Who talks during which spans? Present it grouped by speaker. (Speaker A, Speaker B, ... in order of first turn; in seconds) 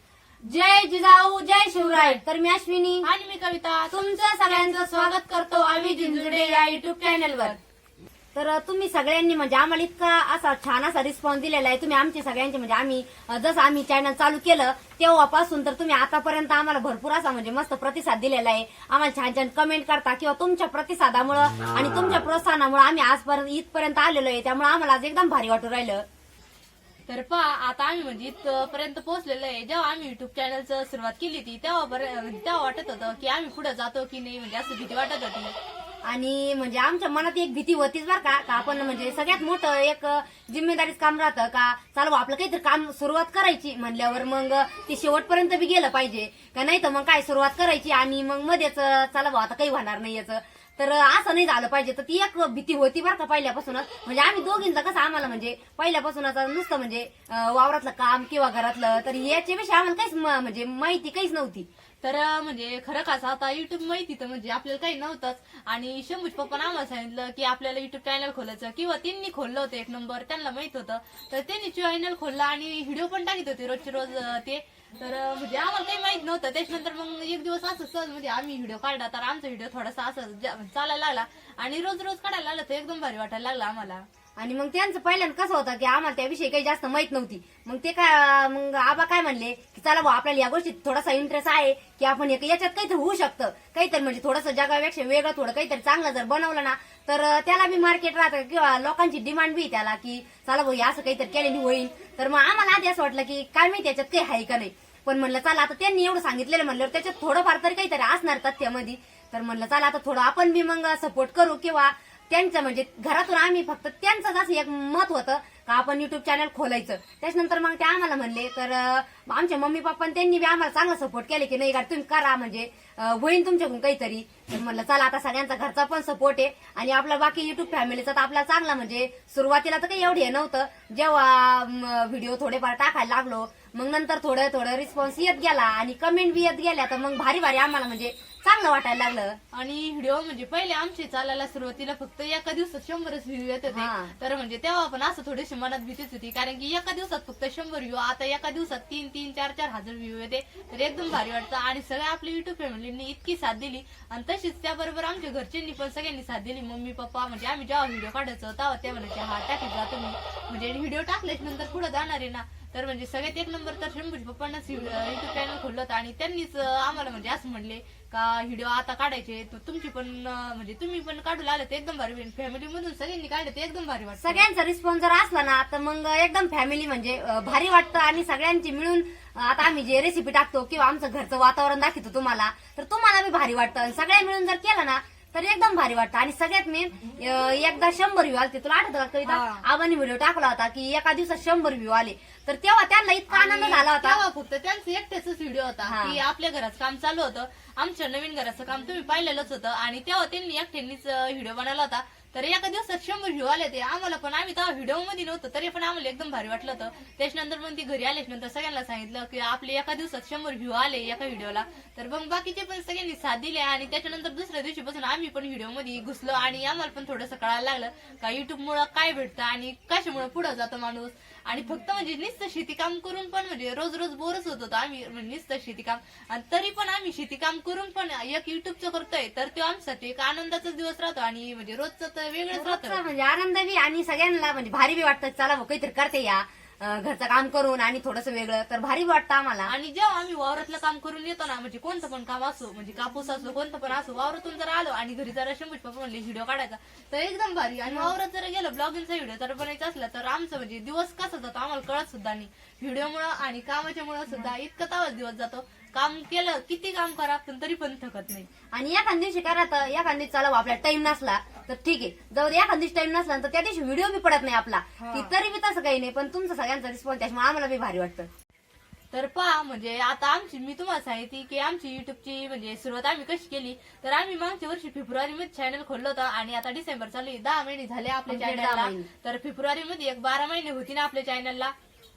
Speaker A: 0.5-3.1, 3.9-7.5, 8.3-26.0, 36.0-61.7, 84.4-139.4, 143.7-144.2, 174.2-194.2, 195.8-196.2, 232.5-239.7, 247.9-248.1, 258.7-268.3, 278.3-279.1
Speaker B: 0.5-0.8, 1.5-2.2, 3.0-7.6, 27.1-35.5, 62.0-84.0, 139.5-174.4, 189.2-189.6, 193.3-233.0, 239.7-258.5, 265.0-265.3, 269.1-281.7